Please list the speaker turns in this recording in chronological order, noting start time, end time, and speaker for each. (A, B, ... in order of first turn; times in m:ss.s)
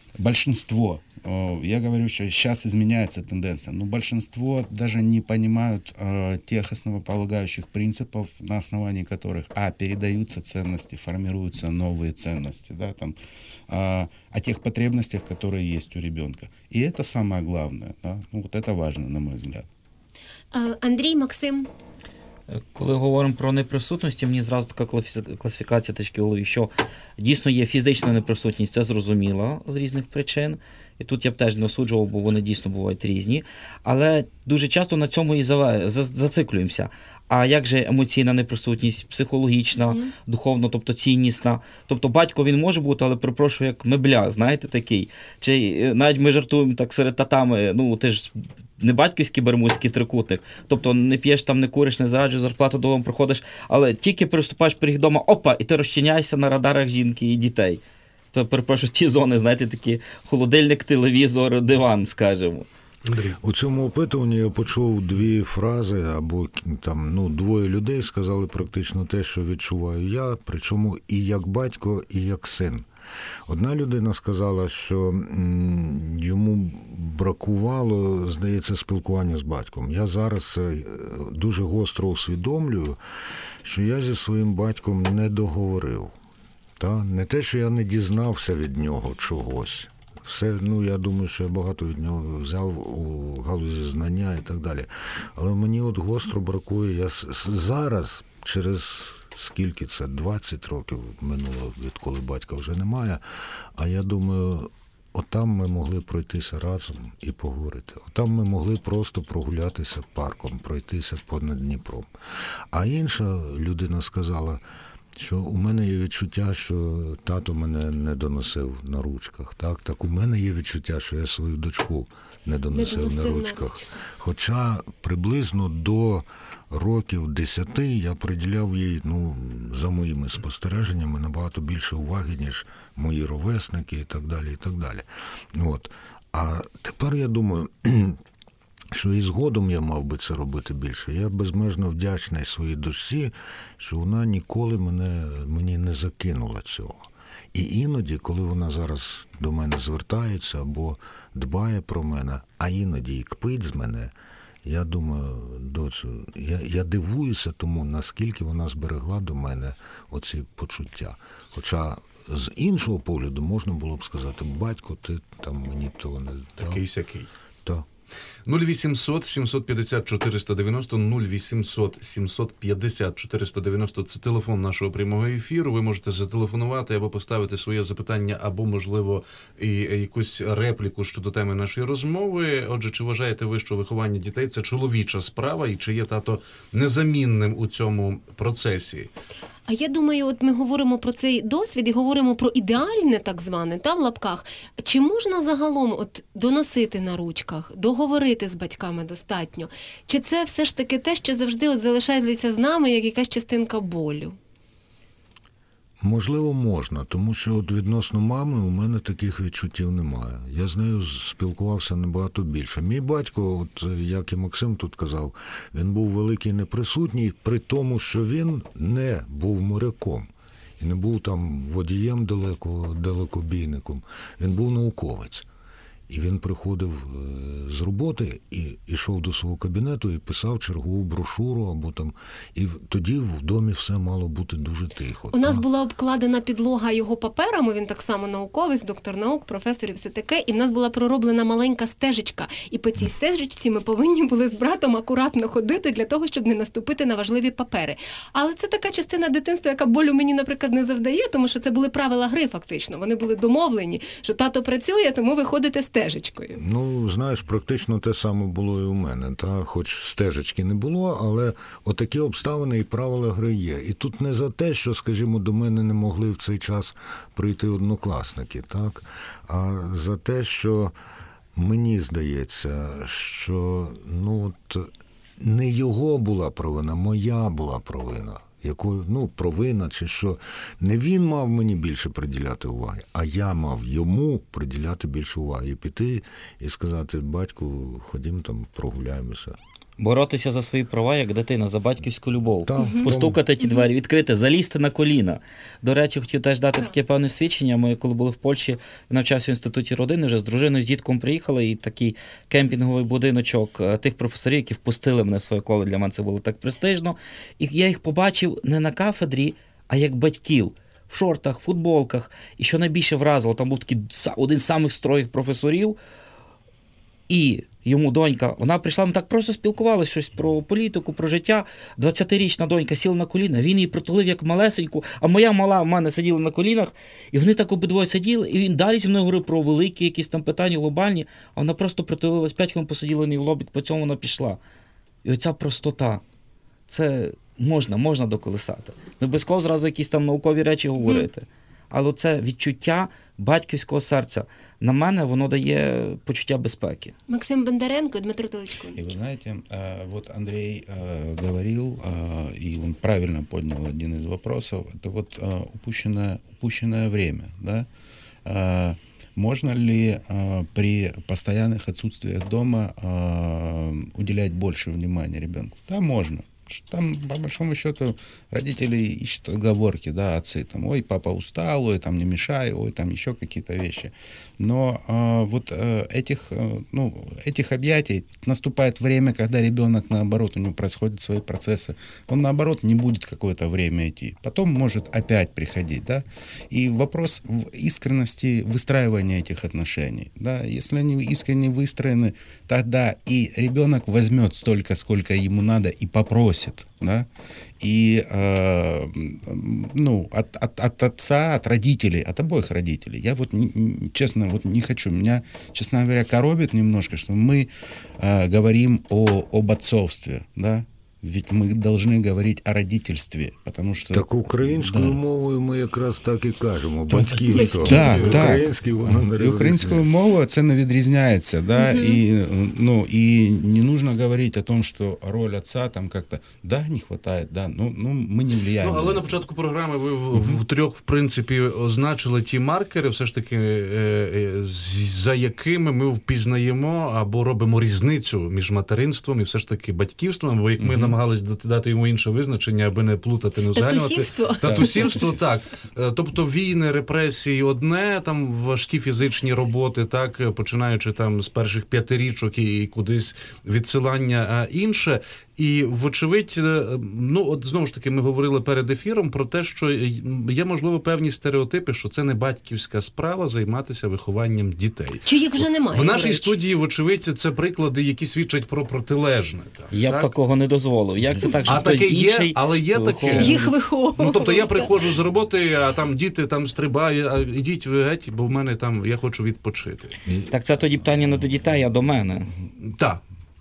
0:00.2-0:13.2 A
0:13.7-0:19.7 A
0:20.5-0:21.7 B
0:22.5-0:57.8 C
0:58.3-1:02.7 C
1:03.0-1:03.4 D
1:03.4-1:12.9 E
1:13.5-1:23.0 E
1:23.6-1:26.2 E
1:26.8-1:43.2 E
1:43.7-1:52.1 E
1:52.7-1:54.6 E
1:55.2-2:18.2 E
2:02.7-2:03.7 B
2:18.9-2:46.8 E
2:46.6-2:47.3 D
2:48.4-3:09.1 D
3:09.7-3:24.4 B
3:26.0-3:45.4 E
3:46.1-3:55.6 E
3:55.3-4:16.6 B
4:16.6-4:30.9 E
4:31.5-4:49.6 E
4:50.0-5:16.0 C
4:52.6-4:53.4 E
4:52.8-4:53.1 B
5:17.3-5:34.6 C
5:35.2-5:36.2 C
5:36.9-5:47.1 C
5:41.0-5:41.3 B
5:47.3-5:49.0 B
5:49.0-5:57.9 A
5:58.4-6:37.3 A
6:37.8-6:55.2 A
6:54.1-7:00.1 E
6:57.1-7:09.4 A
6:57.7-6:58.1 B
6:57.8-6:58.4 D
7:01.8-7:02.1 B
7:08.8-7:50.3 D
7:20.8-7:21.2 A
7:23.7-7:25.2 B
7:24.6-7:25.5 A
7:45.2-7:46.5 B
7:49.9-7:53.6 C
7:51.6-8:00.2 D
7:53.3-7:54.9 B
8:00.2-8:00.5 E
8:00.5-8:02.5 C
8:02.8-8:03.2 D